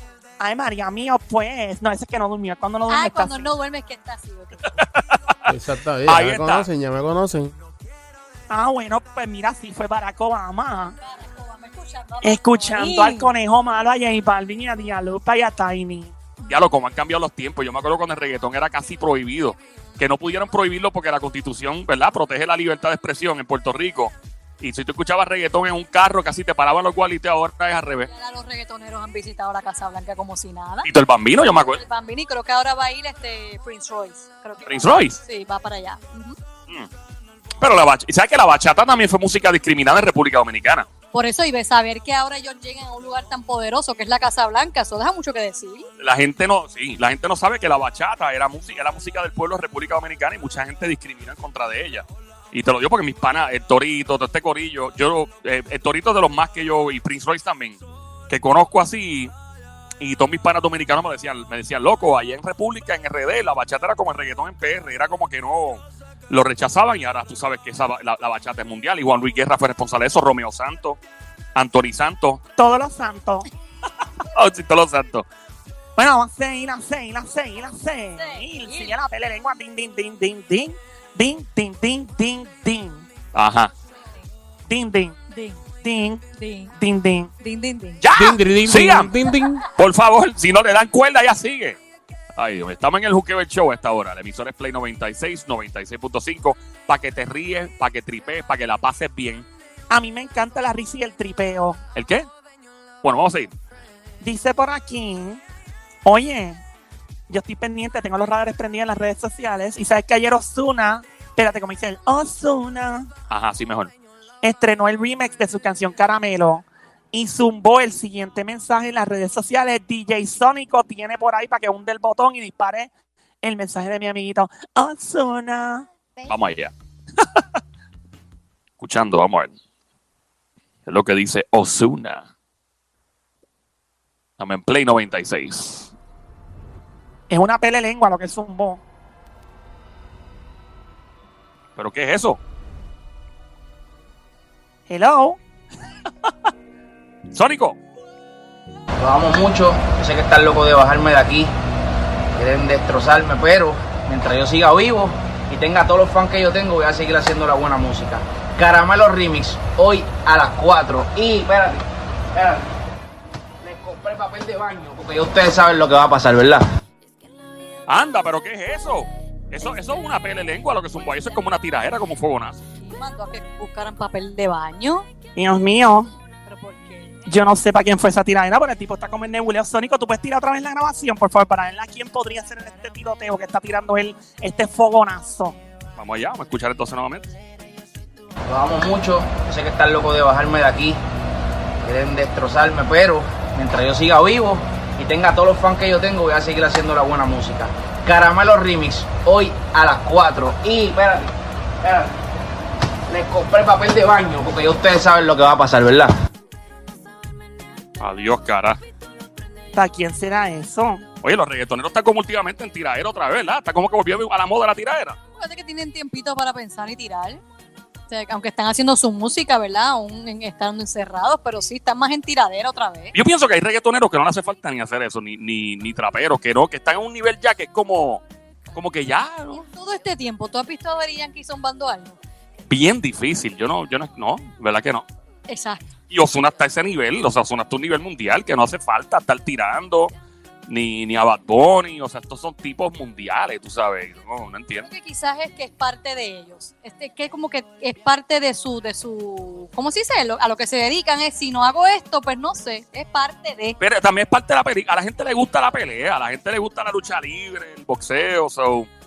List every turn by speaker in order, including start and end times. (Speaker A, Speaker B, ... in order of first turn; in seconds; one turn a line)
Speaker A: 0.4-3.5
Speaker B: 2.9-4.7
Speaker C: 4.8-5.5
Speaker D: 5.5-7.5
Speaker C: 6.0-6.7
Speaker A: 8.5-11.0
Speaker B: 11.0-13.3
Speaker A: 12.2-16.1
Speaker C: 16.5-28.1
Speaker B: 28.1-30.9
Speaker C: 30.9-31.8
Speaker B: 31.7-36.4
Speaker C: 34.6-35.2
Speaker C: 37.6-40.9
Speaker B: 41.1-45.9
Speaker C: 46.0-59.3
Speaker C: 60.0-71.0
Speaker C: 71.5-72.4
Speaker A: 72.6-73.5
Speaker C: 74.3-75.2
Speaker A: 76.0-83.1
Speaker B: 78.2-78.9
Speaker C: 83.3-83.7
Speaker A: 84.7-85.2
Speaker B: 85.3-85.6
Speaker A: 85.8-86.2
Speaker B: 86.3-86.7
Speaker A: 86.8-87.3
Speaker B: 87.4-88.0
Speaker C: 88.0-89.1
Speaker D: 88.1-89.6
Speaker C: 89.7-91.8
Speaker C: 92.4-99.5
Speaker A: 99.9-101.8
Speaker C: 102.0-102.3
Speaker C: 103.0-103.5
Speaker A: 104.2-105.4
Speaker A: 106.0-106.6
Speaker A: 107.3-113.1
Speaker C: 113.3-113.9
Speaker A: 114.4-122.9
Speaker A: 123.4-125.9
Speaker C: 126.2-126.7
Speaker C: 128.8-129.5
Speaker C: 130.9-132.3
Speaker C: 134.4-135.9
Speaker A: 137.3-138.8
Speaker C: 141.8-142.4
Speaker A: 144.9-145.4
Speaker C: 147.3-147.8
Speaker E: 149.0-151.5
Speaker E: 152.3-162.7
Speaker E: 163.6-166.6
Speaker C: 167.9-172.6
Speaker B: 172.8-175.1
Speaker A: 175.4-176.1
Speaker B: 176.4-177.3
Speaker A: 177.3-185.6
Speaker C: 186.0-187.3
Speaker E: 188.5-191.0
Speaker E: 191.8-202.2
Speaker E: 203.1-206.1
Speaker C: 208.0-208.8
Speaker A: 209.7-211.0
Speaker C: 211.2-215.2
Speaker B: 215.4-217.4
Speaker B: 218.1-223.1
Speaker C: 223.1-228.2
Speaker C: 228.8-229.6
Speaker B: 229.5-232.2
Speaker C: 232.7-235.1
Speaker B: 235.5-235.9
Speaker C: 236.1-240.1
Speaker C: 240.7-244.9
Speaker B: 244.8-253.8
Speaker C: 253.8-258.9